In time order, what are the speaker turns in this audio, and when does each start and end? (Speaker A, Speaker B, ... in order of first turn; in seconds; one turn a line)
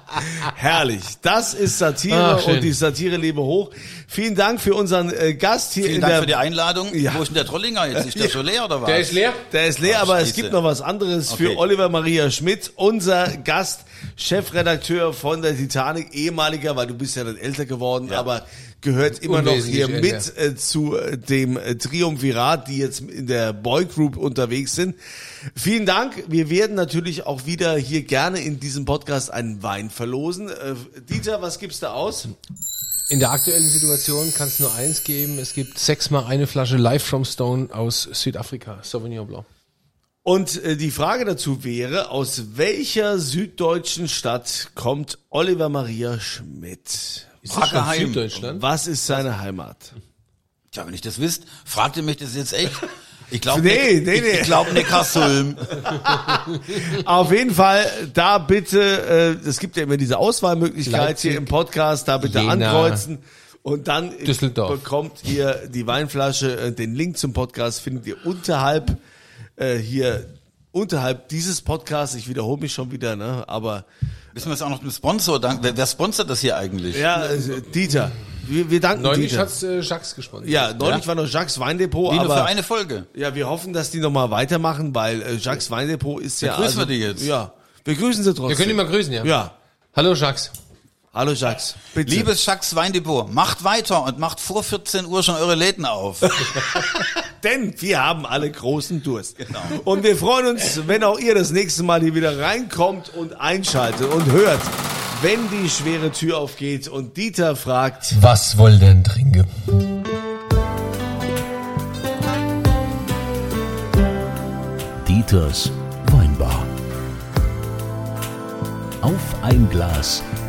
Speaker A: 0.1-6.4
Speaker B: 2.1-2.7
Speaker C: 5.8-9.1
Speaker A: 6.9-7.3
Speaker A: 7.9-8.4
Speaker B: 8.8-9.4
Speaker A: 9.5-32.3
Speaker C: 9.8-10.6
Speaker C: 11.3-11.6
Speaker B: 19.2-20.3
Speaker B: 33.1-39.5
Speaker A: 40.2-47.4
Speaker B: 47.5-48.6
Speaker C: 47.5-48.3
Speaker A: 48.4-50.0
Speaker C: 50.7-55.9
Speaker A: 53.5-69.0
Speaker B: 60.9-61.5
Speaker B: 62.2-63.0
Speaker B: 64.2-64.8
Speaker A: 69.6-73.9
Speaker C: 74.3-77.5
Speaker A: 76.9-79.5
Speaker B: 79.0-81.0
Speaker A: 80.4-82.5
Speaker C: 82.1-83.1
Speaker A: 83.1-89.5
Speaker C: 86.4-87.3
Speaker B: 88.5-89.4
Speaker B: 90.0-90.5
Speaker A: 91.1-92.3
Speaker C: 92.0-96.5
Speaker A: 96.4-108.2
Speaker C: 99.4-99.8
Speaker B: 108.1-109.7
Speaker D: 115.0-116.7
Speaker D: 119.0-120.3